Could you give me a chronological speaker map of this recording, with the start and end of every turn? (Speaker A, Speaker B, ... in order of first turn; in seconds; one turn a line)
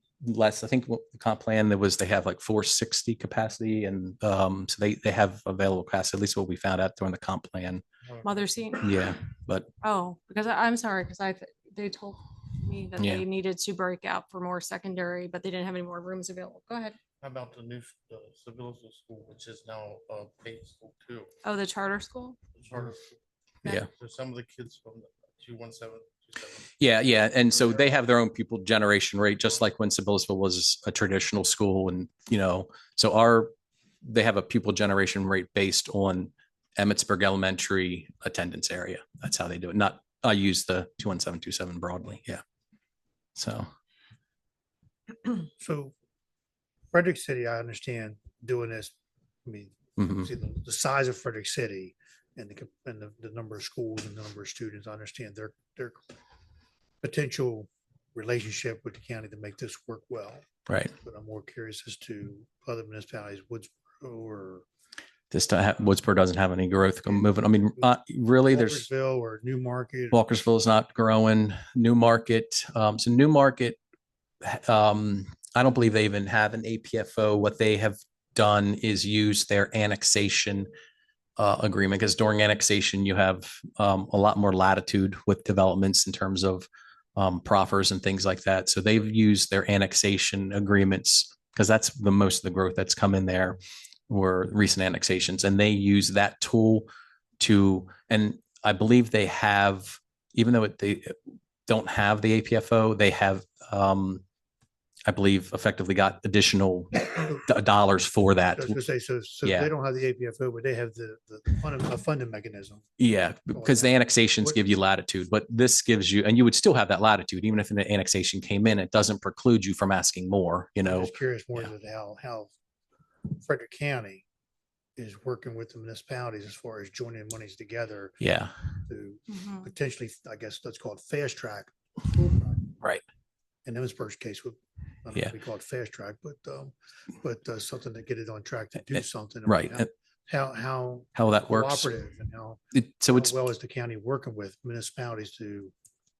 Speaker A: 0.2-7.8
Speaker B: 8.2-9.1
Speaker A: 8.8-9.7
Speaker B: 9.8-17.0
Speaker A: 13.0-13.2
Speaker C: 17.2-21.3
Speaker B: 21.4-22.4
Speaker C: 22.6-23.1
Speaker C: 23.9-26.7
Speaker A: 26.8-33.5
Speaker C: 27.5-27.9
Speaker A: 34.0-42.4
Speaker A: 43.4-43.7
Speaker D: 45.6-45.9
Speaker D: 46.9-49.0
Speaker D: 49.5-56.0
Speaker A: 50.0-50.3
Speaker D: 57.0-64.7
Speaker A: 60.7-60.9
Speaker A: 65.3-68.9
Speaker D: 67.2-67.9
Speaker D: 68.5-70.2
Speaker A: 70.1-73.8
Speaker A: 74.4-80.7
Speaker A: 81.4-93.6
Speaker A: 94.1-96.9
Speaker A: 97.4-104.2
Speaker A: 105.1-108.8
Speaker D: 108.6-112.9
Speaker A: 109.4-109.7
Speaker A: 113.0-121.7
Speaker D: 113.5-114.6
Speaker D: 120.8-122.5
Speaker D: 123.3-124.2
Speaker D: 125.0-128.2
Speaker A: 128.2-128.5
Speaker D: 128.9-132.8
Speaker B: 129.3-129.7
Speaker D: 133.7-145.7
Speaker A: 139.5-139.9
Speaker A: 141.2-141.9
Speaker A: 142.7-143.4